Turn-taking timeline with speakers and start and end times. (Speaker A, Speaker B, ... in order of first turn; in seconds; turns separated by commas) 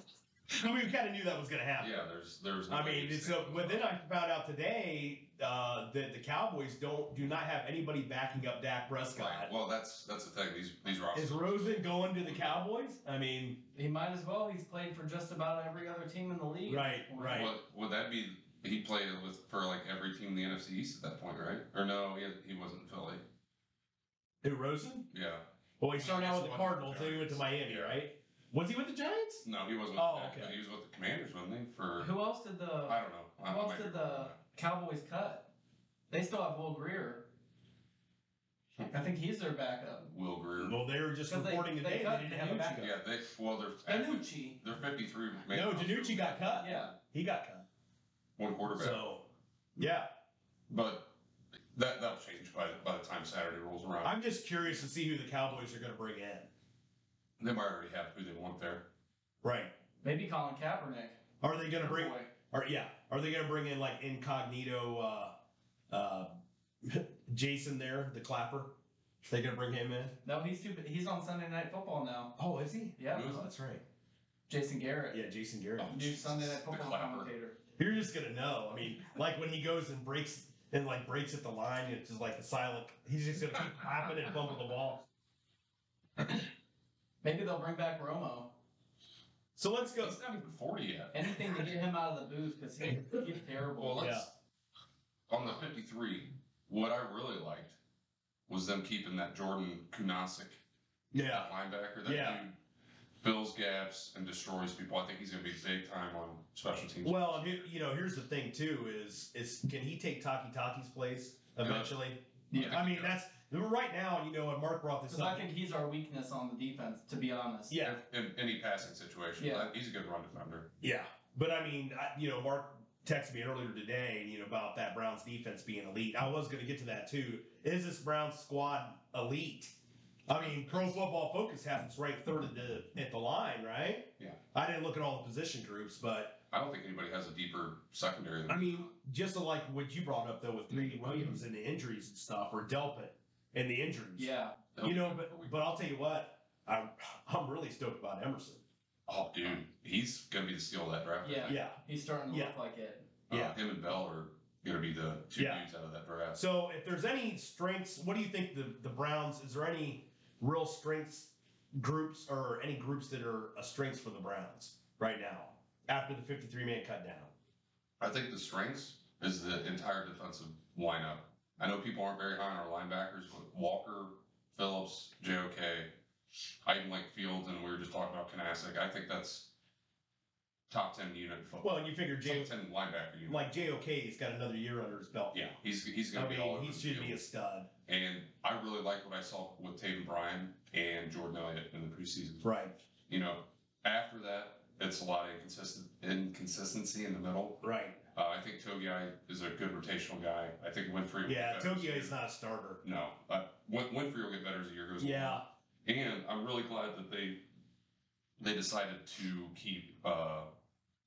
Speaker A: 0.5-1.9, Speaker B: 1.8-3.9, Speaker A: 2.7-9.5, Speaker B: 9.1-12.5, Speaker A: 11.1-13.6, Speaker C: 13.7-17.5, Speaker A: 16.6-17.5, Speaker B: 17.3-23.2, Speaker A: 24.4-25.1, Speaker B: 25.1-28.0, Speaker A: 25.8-29.4, Speaker B: 29.4-32.1, Speaker A: 29.9-30.5, Speaker C: 32.0-35.5, Speaker B: 32.9-34.4, Speaker C: 36.1-37.3, Speaker C: 38.9-40.1, Speaker B: 40.1-40.8, Speaker A: 40.6-43.0, Speaker C: 41.3-42.8, Speaker B: 42.8-46.9, Speaker C: 43.9-44.6, Speaker A: 45.5-47.6, Speaker C: 46.6-46.9, Speaker B: 48.4-49.0, Speaker A: 48.7-49.2, Speaker A: 49.8-50.1, Speaker B: 50.7-51.1, Speaker B: 51.7-54.1, Speaker A: 54.0-56.5, Speaker B: 57.4-58.9, Speaker A: 59.4-59.7, Speaker C: 60.0-61.2, Speaker A: 61.4-65.3, Speaker C: 61.7-62.3, Speaker A: 65.9-66.3, Speaker A: 66.8-68.7, Speaker A: 69.2-70.2, Speaker C: 70.2-72.3, Speaker A: 72.4-73.8, Speaker C: 73.0-73.5, Speaker B: 73.1-73.5, Speaker C: 74.5-75.2, Speaker A: 75.1-75.9, Speaker B: 75.8-77.3, Speaker C: 75.8-77.5, Speaker A: 77.8-85.0, Speaker C: 87.2-88.5, Speaker A: 89.5-90.2, Speaker B: 90.0-91.7, Speaker C: 91.1-94.0, Speaker B: 93.8-94.3, Speaker A: 94.0-94.3, Speaker B: 95.3-97.8, Speaker B: 98.5-100.6, Speaker A: 101.1-101.5, Speaker B: 101.1-102.5, Speaker A: 102.0-102.4, Speaker B: 103.2-107.6, Speaker A: 107.0-115.4, Speaker B: 111.6-111.9, Speaker C: 112.5-112.8, Speaker B: 112.5-113.2, Speaker C: 115.1-117.8, Speaker A: 117.7-118.0, Speaker B: 117.8-120.7, Speaker C: 119.4-119.7, Speaker A: 120.8-129.7, Speaker A: 130.3-136.4, Speaker B: 130.3-130.9, Speaker B: 136.5-138.8, Speaker A: 138.5-144.3, Speaker B: 140.7-141.3, Speaker C: 144.2-144.6, Speaker B: 144.7-145.5, Speaker A: 144.8-148.6, Speaker B: 149.1-151.6, Speaker C: 151.2-153.1, Speaker A: 151.4-151.8, Speaker A: 152.3-152.5, Speaker B: 153.3-156.4, Speaker A: 153.3-153.6, Speaker A: 155.3-155.6, Speaker A: 156.3-167.3, Speaker B: 168.0-175.9, Speaker B: 176.6-179.5, Speaker B: 180.7-183.7, Speaker A: 181.6-182.5, Speaker A: 183.3-185.3, Speaker B: 185.3-187.2, Speaker A: 186.1-187.7, Speaker B: 187.9-192.5, Speaker A: 192.4-192.7, Speaker B: 193.1-202.2, Speaker A: 197.6-198.0, Speaker A: 201.2-202.8, Speaker B: 202.8-207.4, Speaker A: 205.0-205.4, Speaker B: 208.4-210.5